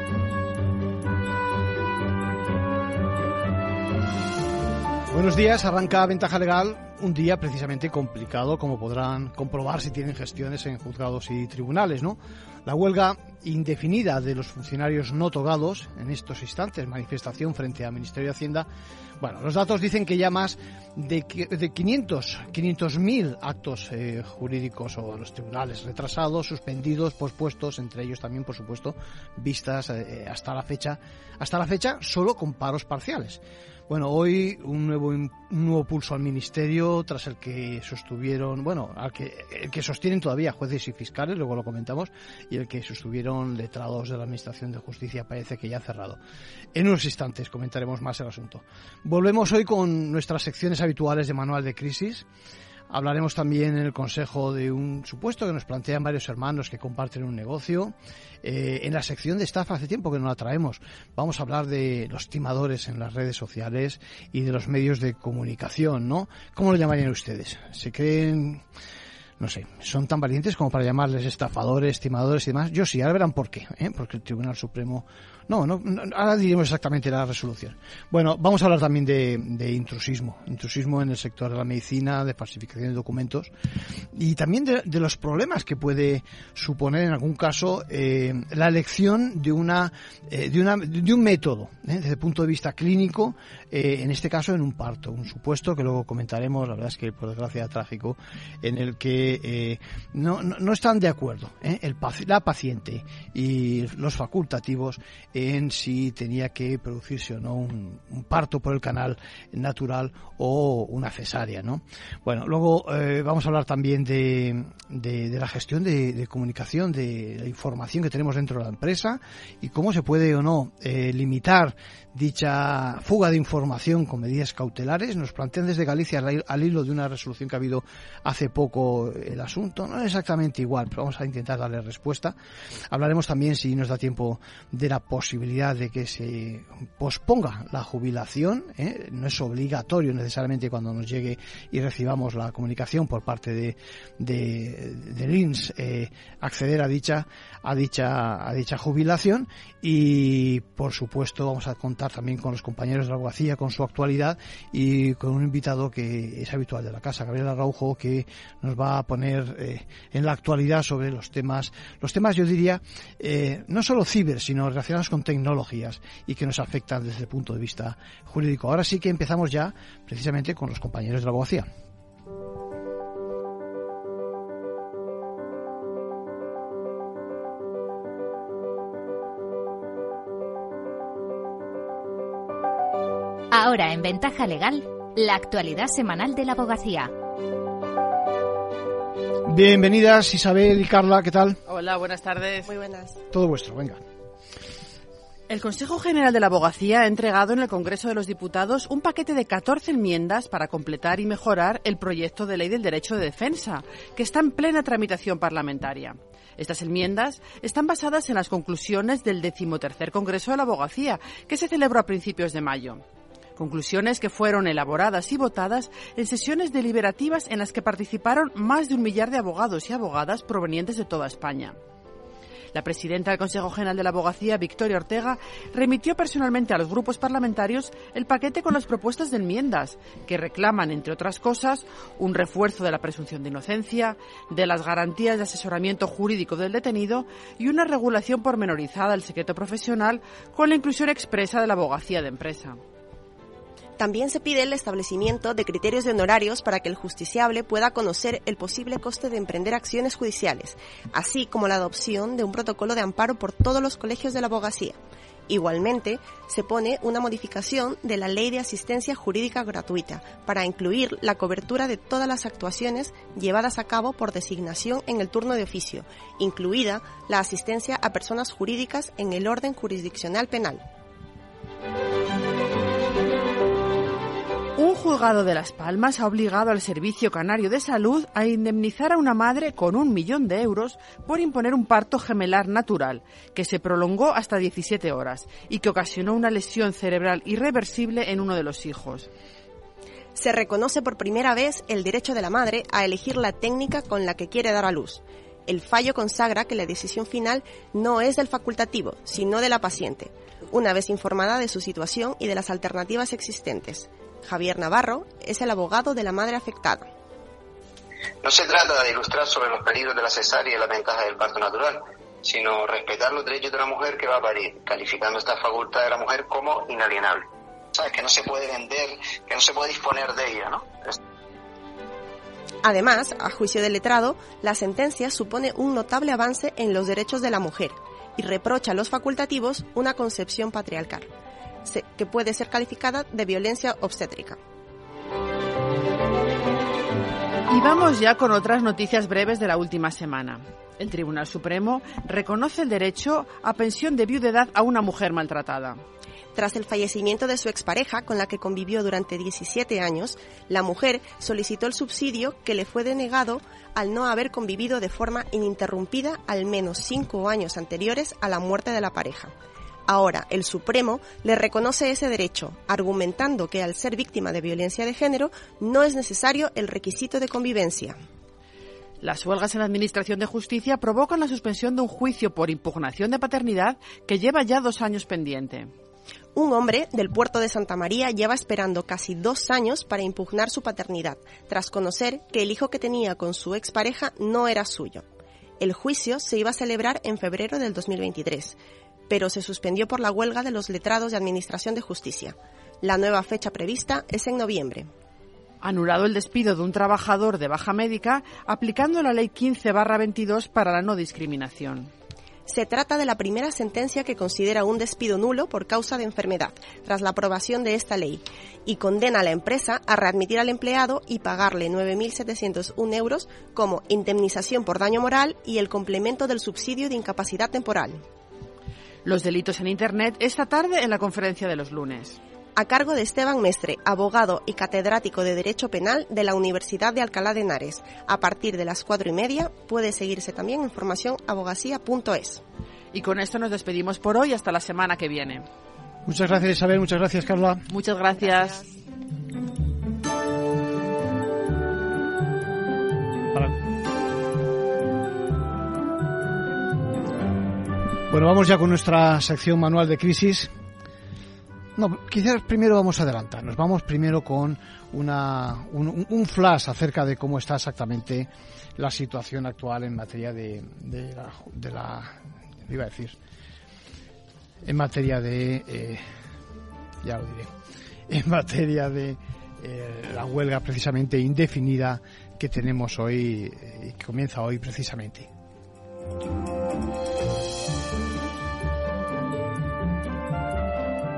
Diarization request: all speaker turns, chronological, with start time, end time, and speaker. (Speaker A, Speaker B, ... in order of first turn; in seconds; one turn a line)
Speaker A: 5.1-18.7
Speaker A: 19.2-46.2
Speaker A: 46.7-52.2
Speaker A: 52.9-68.6
Speaker A: 69.4-83.5
Speaker A: 84.1-132.3
Speaker A: 132.9-171.7
Speaker B: 183.5-187.1
Speaker A: 189.5-191.6
Speaker C: 191.7-192.7
Speaker D: 192.7-193.2
Speaker A: 193.3-194.0
Speaker C: 195.5-213.0
Speaker C: 213.6-221.8
Speaker C: 222.7-242.8
Speaker D: 244.0-255.0
Speaker D: 255.5-270.8
Speaker C: 274.8-289.3
Speaker D: 290.4-307.1
Speaker E: 308.4-321.2
Speaker D: 322.8-331.3
Speaker D: 331.8-334.6
Speaker C: 337.7-346.0
Speaker D: 346.5-359.5
Speaker D: 360.1-368.2
Speaker C: 369.2-375.9
Speaker D: 376.5-385.2
Speaker D: 385.8-388.8
Speaker D: 389.3-395.1
Speaker C: 395.8-402.1
Speaker D: 402.7-418.2
Speaker C: 419.2-422.4
Speaker D: 422.8-432.6
Speaker C: 433.1-435.6
Speaker A: 436.2-437.9
Speaker C: 437.9-438.9
Speaker A: 448.3-450.7
Speaker A: 452.0-463.4
Speaker A: 464.8-466.2
Speaker A: 467.2-467.7
Speaker A: 468.3-475.5